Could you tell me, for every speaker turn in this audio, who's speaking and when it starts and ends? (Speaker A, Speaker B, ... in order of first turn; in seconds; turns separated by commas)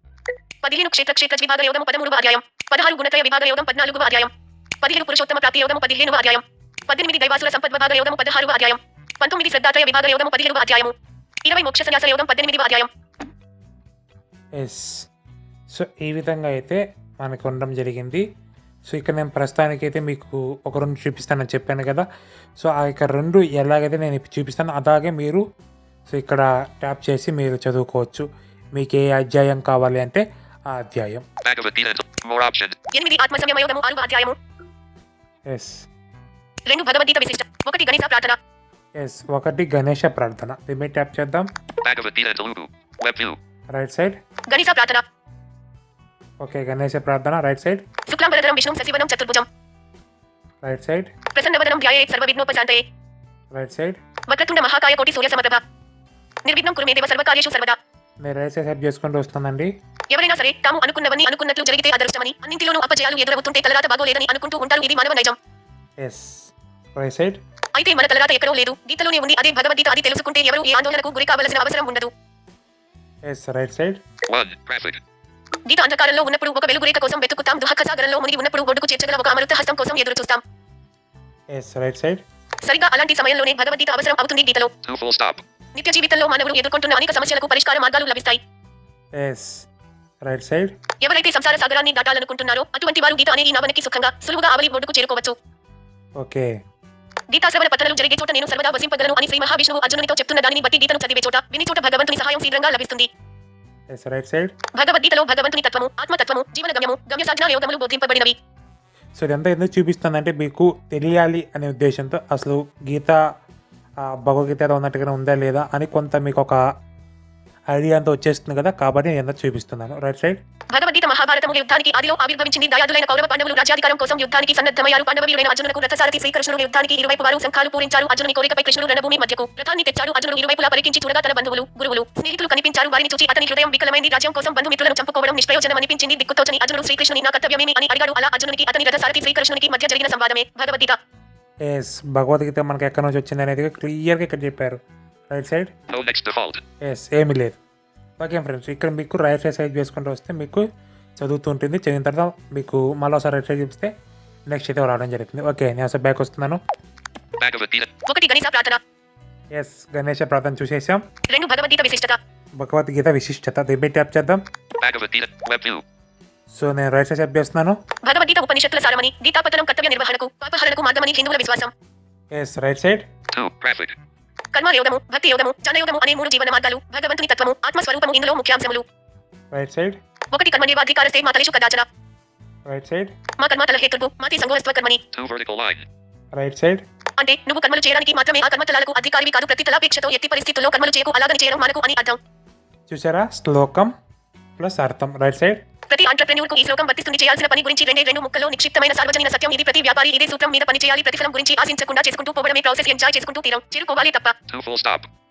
Speaker A: 0.6-12.9, Speaker B: 14.6-14.9, Speaker B: 15.7-18.2, Speaker B: 18.9-22.1, Speaker B: 22.6-25.4, Speaker B: 26.1-31.2, Speaker C: 31.4-32.8, Speaker A: 32.9-34.4, Speaker B: 35.5-35.8, Speaker A: 36.7-38.4, Speaker B: 39.0-41.5, Speaker C: 41.8-43.4, Speaker B: 43.7-44.2, Speaker A: 44.5-45.0, Speaker B: 46.4-47.8, Speaker A: 48.1-49.5, Speaker B: 50.6-51.1, Speaker A: 51.3-52.8, Speaker B: 53.5-54.0, Speaker A: 54.3-55.6, Speaker A: 56.5-57.8, Speaker B: 58.2-59.7, Speaker A: 60.1-65.4, Speaker B: 66.0-67.4, Speaker A: 67.8-72.1, Speaker B: 73.3-74.0, Speaker C: 74.3-75.0, Speaker A: 75.7-80.4, Speaker B: 81.5-82.2, Speaker A: 82.6-84.7, Speaker C: 84.8-85.4, Speaker A: 85.8-88.4, Speaker B: 89.2-89.7, Speaker B: 90.2-90.7, Speaker A: 91.0-95.3, Speaker B: 96.2-96.5, Speaker A: 97.3-103.1, Speaker B: 103.9-104.5, Speaker A: 104.8-108.4, Speaker B: 109.2-113.2, Speaker B: 114.1-116.6, Speaker B: 117.7-120.4, Speaker A: 120.7-141.0, Speaker B: 141.7-144.8, Speaker B: 145.3-145.7, Speaker C: 145.9-146.6, Speaker B: 146.8-147.6, Speaker B: 148.2-150.7, Speaker B: 151.2-153.9, Speaker B: 154.5-156.6, Speaker C: 157.4-157.9, Speaker A: 158.1-158.8, Speaker B: 159.5-161.0, Speaker A: 161.3-162.2, Speaker B: 162.6-164.4, Speaker C: 164.8-165.8, Speaker B: 166.5-167.8, Speaker A: 168.0-171.7, Speaker B: 172.3-173.0, Speaker C: 173.3-174.0, Speaker A: 174.5-178.8, Speaker B: 179.5-180.0, Speaker A: 180.3-181.9, Speaker B: 182.7-183.1, Speaker A: 183.4-185.0, Speaker C: 185.1-185.8, Speaker B: 186.3-186.8, Speaker A: 187.2-192.2, Speaker B: 192.9-193.9, Speaker B: 194.6-195.6, Speaker A: 195.9-204.4, Speaker C: 204.5-205.1